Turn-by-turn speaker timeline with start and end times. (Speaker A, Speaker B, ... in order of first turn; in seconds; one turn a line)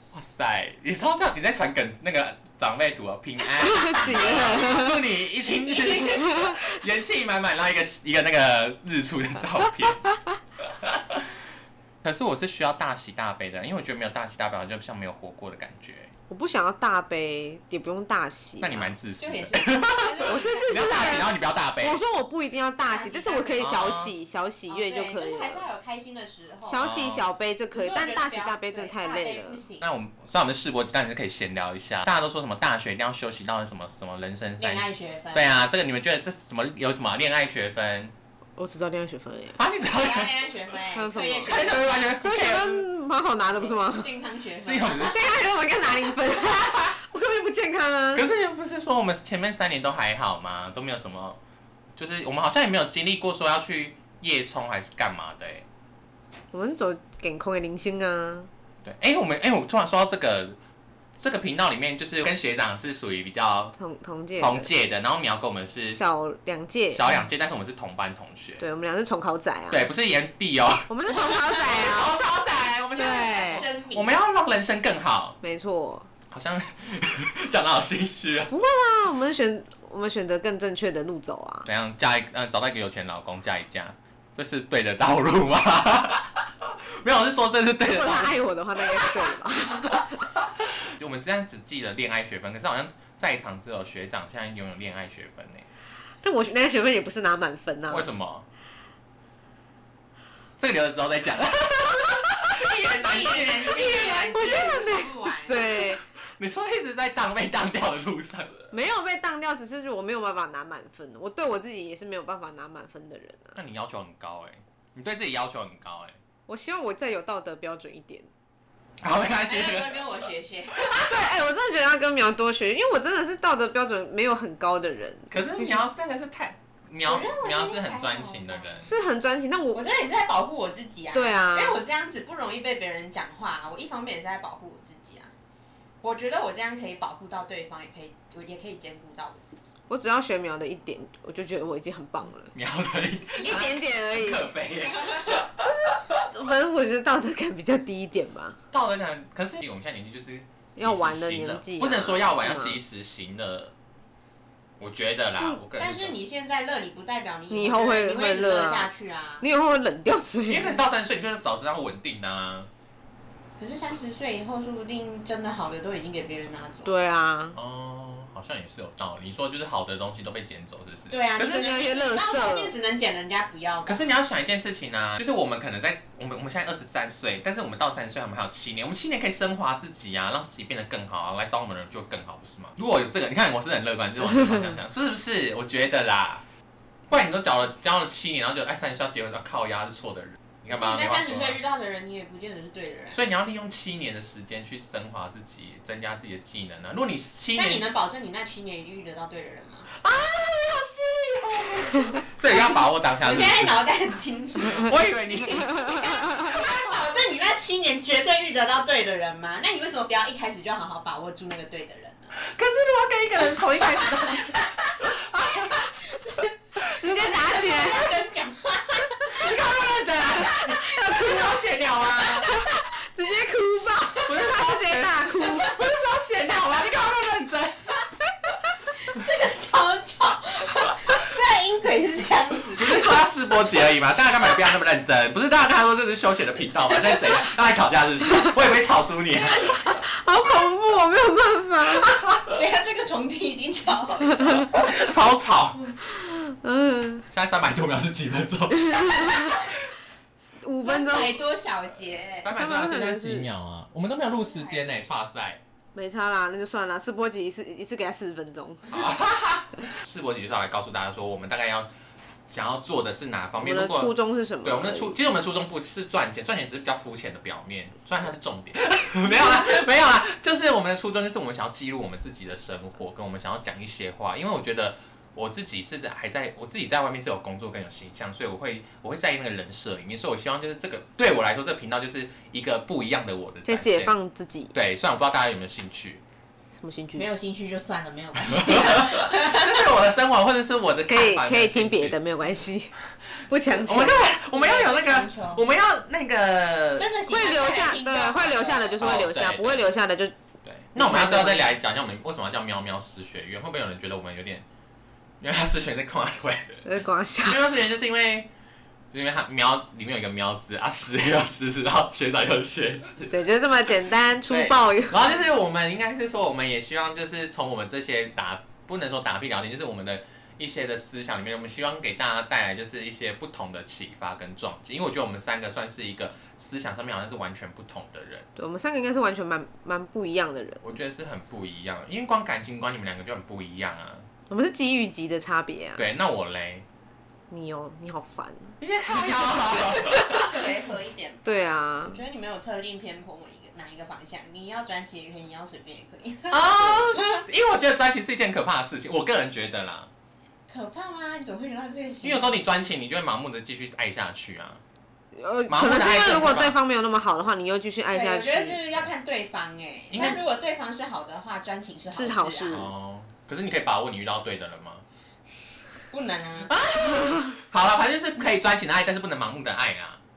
Speaker A: 0.1-10.0
Speaker B: 3.8-4.9
Speaker C: 3.9-4.5
Speaker C: 5.6-6.5
Speaker A: 10.6-11.2
Speaker A: 12.0-16.1
Speaker B: 16.3-18.9
Speaker A: 18.6-22.0
Speaker C: 19.2-21.2
Speaker B: 20.2-25.6
Speaker C: 22.9-23.9
Speaker A: 23.6-24.1
Speaker C: 24.7-26.9
Speaker B: 26.6-29.6
Speaker A: 26.8-27.3
Speaker C: 27.7-29.8
Speaker A: 29.8-38.1
Speaker C: 34.6-35.6
Speaker B: 38.6-39.6
Speaker A: 39.5-40.3
Speaker C: 39.9-42.2
Speaker B: 40.9-44.1
Speaker A: 41.4-42.9
Speaker C: 43.5-45.3
Speaker A: 44.6-45.3
Speaker B: 45.0-48.2
Speaker A: 48.1-51.4
Speaker A: 52.0-55.6
Speaker B: 56.5-58.5
Speaker A: 58.8-60.6
Speaker A: 61.2-63.7
Speaker B: 63.7-64.7
Speaker A: 64.4-66.0
Speaker B: 65.8-67.2
Speaker A: 66.9-68.6
Speaker B: 68.6-69.9
Speaker A: 69.7-75.4
Speaker B: 70.9-72.2
Speaker B: 73.0-73.7
Speaker C: 73.0-74.1
Speaker B: 75.4-76.1
Speaker A: 76.3-78.5
Speaker B: 78.5-81.7
Speaker A: 81.6-89.4
Speaker B: 87.9-90.2
Speaker A: 89.9-95.7
Speaker B: 96.2-98.1
Speaker A: 97.9-98.4
Speaker A: 100.6-103.9
Speaker C: 102.6-105.8
Speaker B: 103.7-106.0
Speaker A: 105.7-108.7
Speaker B: 108.7-113.6
Speaker A: 113.5-116.2
Speaker B: 116.5-118.3
Speaker A: 119.0-120.0
Speaker C: 119.4-121.1
Speaker B: 120.9-125.9
Speaker A: 125.3-128.9
Speaker C: 127.0-128.8
Speaker B: 128.8-129.9
Speaker C: 129.7-135.3
Speaker B: 131.1-131.8
Speaker C: 136.0-139.5
Speaker B: 139.9-142.5
Speaker A: 142.5-145.6
Speaker C: 143.4-143.8
Speaker B: 143.4-144.6
Speaker B: 145.5-148.6
Speaker A: 148.7-153.7
Speaker B: 150.7-152.8
Speaker A: 154.8-156.2
Speaker C: 155.8-159.4
Speaker B: 157.5-160.8
Speaker A: 160.5-162.7
Speaker C: 163.6-166.9
Speaker B: 166.8-167.6
Speaker A: 167.5-171.7
Speaker C: 171.1-174.1
Speaker B: 171.3-172.7
Speaker A: 173.8-186.4
Speaker A: 187.1-191.6
Speaker C: 190.7-193.3
Speaker A: 193.1-197.8
Speaker C: 197.5-199.9
Speaker A: 199.9-203.8
Speaker C: 202.4-212.3
Speaker A: 204.6-205.8
Speaker B: 205.8-206.4
Speaker A: 212.3-215.9
Speaker C: 214.0-222.4
Speaker A: 216.8-217.3
Speaker B: 216.9-218.2
Speaker A: 219.3-222.5
Speaker B: 220.7-221.6
Speaker B: 222.4-225.7
Speaker A: 224.2-227.9
Speaker C: 229.0-233.3
Speaker A: 232.7-239.7
Speaker C: 239.3-240.0
Speaker B: 240.0-242.2
Speaker A: 242.1-242.4
Speaker C: 242.4-244.8
Speaker A: 244.7-245.9
Speaker B: 246.1-247.2
Speaker A: 247.3-249.6
Speaker B: 248.7-249.6
Speaker B: 250.4-251.4
Speaker C: 250.8-252.5
Speaker A: 252.4-255.6
Speaker B: 252.5-253.5
Speaker C: 254.3-254.9
Speaker B: 255.9-259.0
Speaker A: 258.9-261.9
Speaker A: 262.5-284.1
Speaker B: 263.6-265.1
Speaker B: 283.6-284.7
Speaker A: 284.7-286.2
Speaker B: 286.7-287.3
Speaker C: 287.1-289.8
Speaker A: 288.4-292.1
Speaker B: 291.1-292.9
Speaker A: 293.5-297.1
Speaker B: 293.5-294.4
Speaker C: 294.5-295.6
Speaker C: 296.9-299.0
Speaker B: 297.3-300.3
Speaker A: 299.0-299.9
Speaker A: 300.6-304.6
Speaker B: 300.9-301.7
Speaker A: 305.4-306.9
Speaker B: 306.8-307.6
Speaker A: 307.4-308.5
Speaker A: 309.1-313.3
Speaker B: 313.3-315.3
Speaker A: 314.5-328.4
Speaker B: 328.6-330.9
Speaker A: 330.8-334.3
Speaker B: 334.5-336.1
Speaker A: 335.9-336.8
Speaker B: 337.5-338.8
Speaker A: 338.8-340.6
Speaker C: 339.8-347.4
Speaker B: 341.4-342.2
Speaker A: 346.5-350.1
Speaker C: 350.7-352.6
Speaker A: 352.2-354.8
Speaker B: 355.3-358.9
Speaker A: 355.7-356.8
Speaker C: 356.2-356.4
Speaker C: 358.1-362.9
Speaker A: 360.1-360.4
Speaker B: 362.1-362.9
Speaker A: 362.7-365.0
Speaker C: 366.1-366.7
Speaker A: 366.7-370.2
Speaker B: 367.1-367.5